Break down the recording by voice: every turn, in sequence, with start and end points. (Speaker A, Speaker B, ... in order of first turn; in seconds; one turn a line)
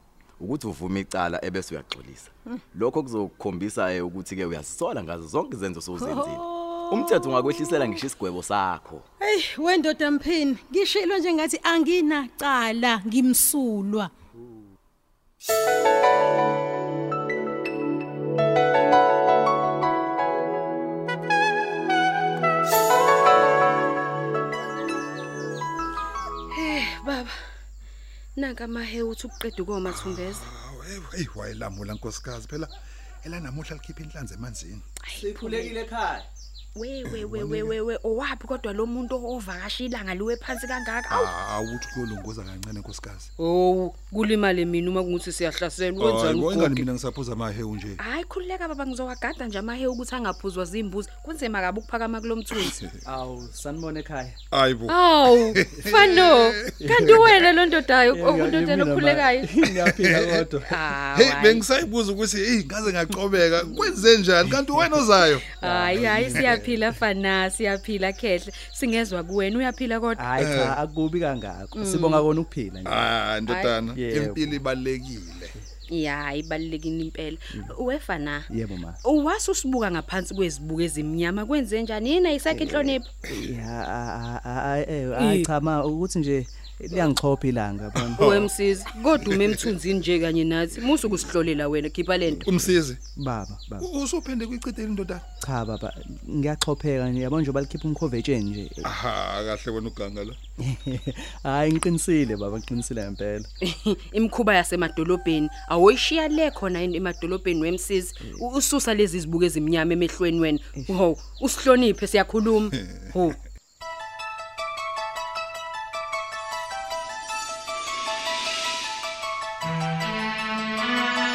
Speaker A: 0.4-9.1
Speaker B: 6.0-7.2
Speaker B: 9.2-14.1
Speaker C: 26.5-27.4
Speaker C: 28.4-30.4
Speaker D: 29.9-32.7
Speaker D: 33.2-34.8
Speaker C: 35.0-35.8
Speaker E: 35.1-36.3
Speaker C: 36.8-41.3
Speaker D: 37.0-37.8
Speaker D: 41.1-43.3
Speaker C: 43.4-46.9
Speaker D: 46.0-48.0
Speaker C: 48.0-52.8
Speaker E: 53.0-54.4
Speaker D: 54.5-57.5
Speaker C: 54.9-59.5
Speaker E: 56.8-57.2
Speaker E: 58.1-60.7
Speaker D: 59.6-60.5
Speaker C: 60.7-61.7
Speaker D: 61.1-66.8
Speaker C: 65.6-70.3
Speaker E: 65.6-66.6
Speaker E: 70.2-73.1
Speaker D: 70.4-70.8
Speaker C: 71.7-72.3
Speaker D: 72.8-75.5
Speaker C: 73.5-73.8
Speaker E: 73.9-74.6
Speaker C: 75.9-78.5
Speaker E: 78.5-79.0
Speaker C: 79.0-83.2
Speaker E: 83.3-88.5
Speaker C: 85.2-85.5
Speaker C: 88.2-92.5
Speaker D: 89.2-89.7
Speaker E: 92.3-93.9
Speaker D: 92.4-93.0
Speaker D: 93.8-95.2
Speaker E: 95.4-98.9
Speaker D: 98.8-100.4
Speaker E: 100.6-103.5
Speaker C: 103.6-113.4